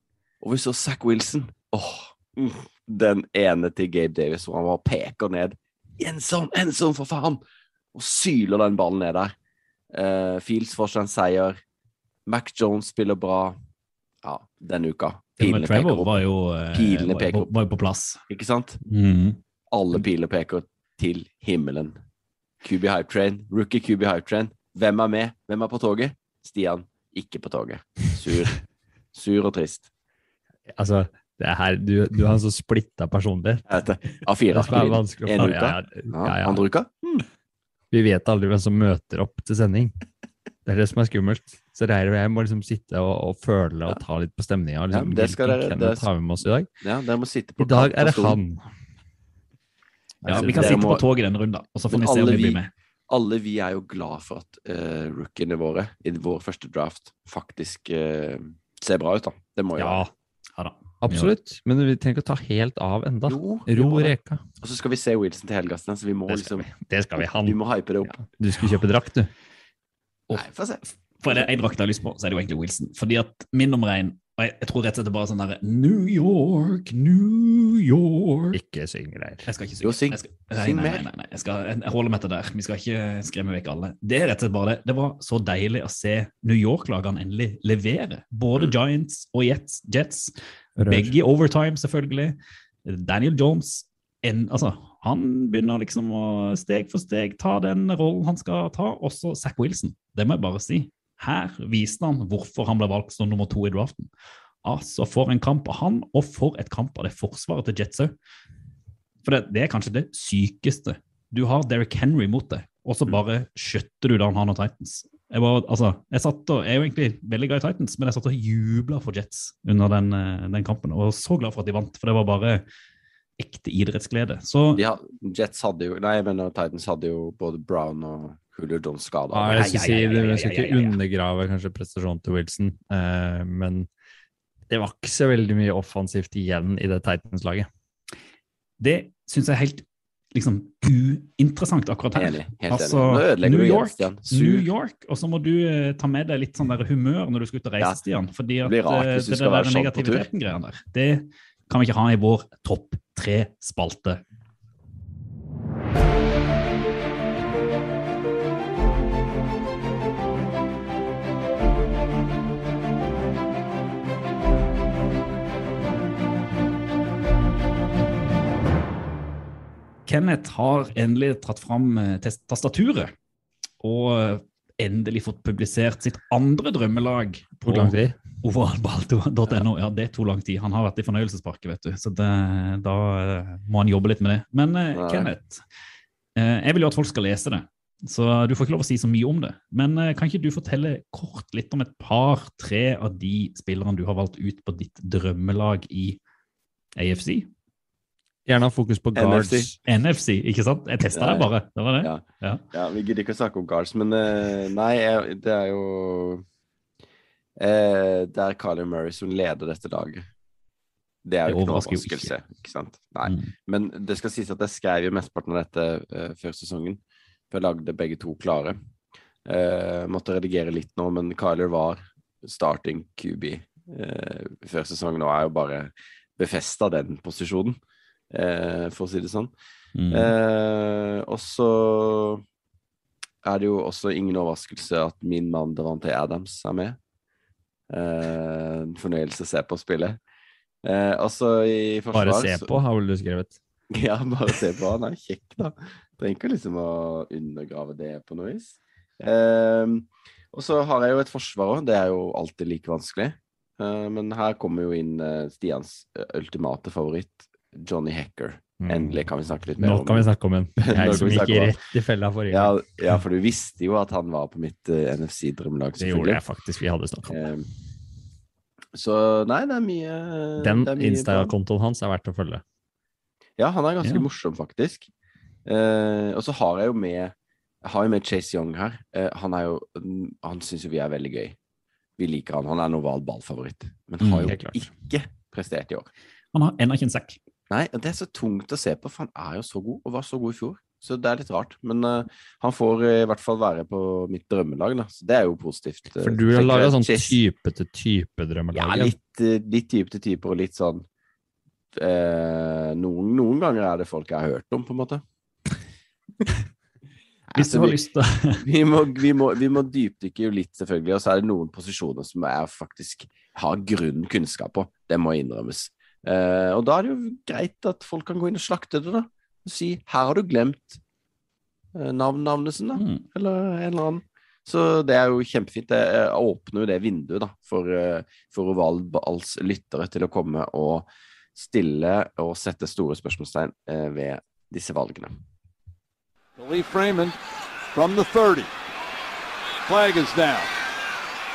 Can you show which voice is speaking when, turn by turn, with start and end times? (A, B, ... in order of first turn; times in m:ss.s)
0:00.4-0:07.4 A
0:07.9-0:09.3 A
0:09.9-0:11.6 A
0:12.3-0:13.6 A
0:14.2-0:16.2 A
0:15.4-0:18.2 B
0:16.7-0:17.5 A
0:18.3-0:18.8 A
0:18.9-0:19.4 B
0:19.7-0:22.0 A
0:22.6-0:28.6 A
0:29.1-0:29.9 A
0:30.7-0:33.8 C
0:33.7-0:37.2 A
0:34.5-0:36.6 C
0:37.9-0:39.9 C
0:40.6-0:46.7 C
0:44.9-0:46.1 A
0:46.8-0:48.4 A
0:47.6-0:48.7 C
0:50.2-0:50.8 C
0:50.2-0:52.7 B
0:50.3-0:51.0 A
0:51.9-1:00.0 A
0:59.8-1:00.1 C
1:00.6-1:01.3 B
1:01.0-1:04.4 C
1:03.3-1:08.2 A
1:06.3-1:09.3 C
1:10.3-1:11.4 A
1:11.2-1:18.6 B
1:18.5-1:19.5 C
1:19.4-1:30.3 B
1:19.8-1:21.0 A
1:30.8-1:31.1 C
1:30.9-1:44.1 B
1:44.6-1:48.1 B
1:49.2-2:02.6 B
2:03.4-2:04.8 B
2:04.7-2:09.8 A
2:09.3-2:13.9 C
2:09.5-2:11.0 B
2:14.7-2:17.7 C
2:18.8-2:34.2 B
2:22.1-2:24.7 A
2:28.6-2:30.2 A
2:50.1-2:53.1 B
2:53.8-3:05.6 B
2:57.6-2:58.2 C
3:04.9-3:05.3 A
3:06.4-3:16.2 B
3:17.0-3:17.5 B
3:18.4-3:19.8 C
3:19.2-3:19.7 A
3:19.8-3:22.6 B
3:21.1-3:21.5 A
3:22.0-3:26.4 A
3:27.6-3:30.2 A
3:31.2-3:37.0 A
3:31.4-3:32.3 B
3:33.2-3:33.5 B
3:37.5-3:38.8 A
3:39.4-3:47.8 A
3:48.3-3:49.5 A
3:50.0-3:50.3 B
3:50.1-3:52.4 A
3:53.4-3:57.0 A
3:57.9-4:00.2 A
4:00.8-4:02.7 A
4:02.1-4:03.6 C
4:03.9-4:21.7 A
4:18.8-4:19.3 C
4:19.8-4:22.7 C
4:22.5-4:26.4 A
4:26.0-4:27.4 C
4:27.3-4:27.7 A
4:28.9-4:31.5 A
4:30.6-4:32.6 C
4:33.6-4:35.1 A
4:35.6-4:41.6 A
4:42.2-4:46.1 A
4:44.2-4:44.5 B
4:44.5-4:44.8 C
4:46.5-4:47.4 B
4:47.7-4:57.4 A
4:56.2-4:59.1 C
4:58.7-5:01.0 A
5:01.9-5:05.2 A
5:07.5-5:08.0 A
5:07.5-5:08.6 B
5:08.6-5:21.0 A
5:21.9-5:35.3 A
5:23.0-5:23.2 B
5:36.6-5:37.3 D
5:37.9-5:38.6 D
5:39.9-5:40.6 D